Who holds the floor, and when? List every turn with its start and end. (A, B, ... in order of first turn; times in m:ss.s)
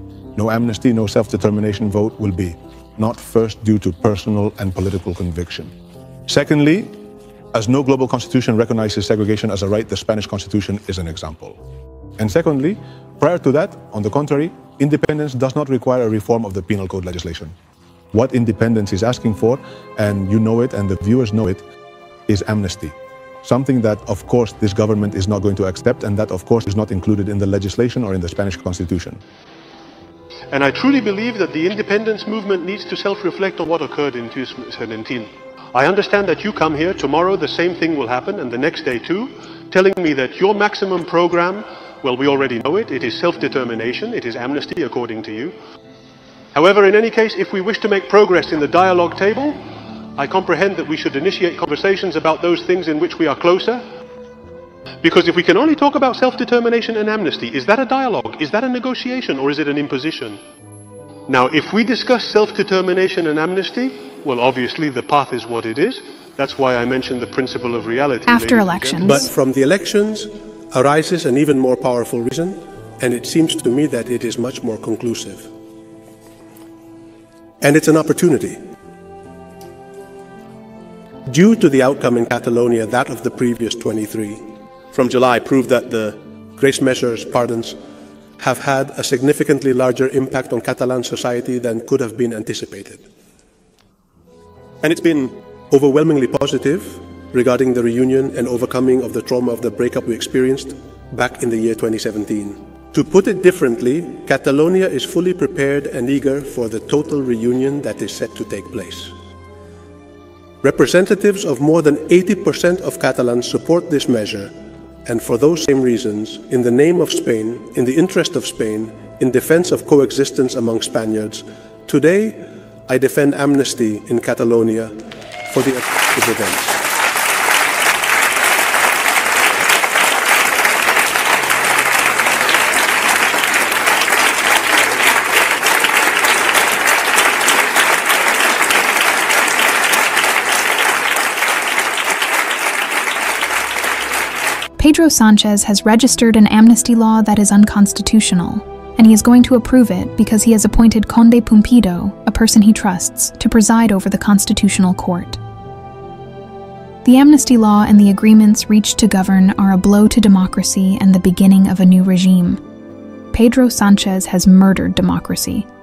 0:00.4-0:05.7 A
0:06.3-0:06.9 A
0:07.5-0:11.6 A
0:12.2-0:17.5 A
0:18.1-0:21.6 A
0:22.3-0:29.2 A
0:30.5-0:45.5 B
0:46.5-0:49.6 B
0:50.2-0:53.8 B
0:55.0-1:00.4 B
1:01.3-1:09.3 B
1:08.2-1:09.3 C
1:09.0-1:15.4 D
1:17.6-1:18.5 D
1:21.2-1:27.8 D
1:25.0-1:25.4 B
1:28.4-1:33.0 D
1:34.8-1:35.3 B
1:35.7-1:49.1 D
1:50.6-1:54.5 D
1:55.0-2:04.9 D
2:05.4-2:06.8 D
2:24.8-2:35.4 C
2:37.0-2:42.6 C
2:43.3-2:45.7 C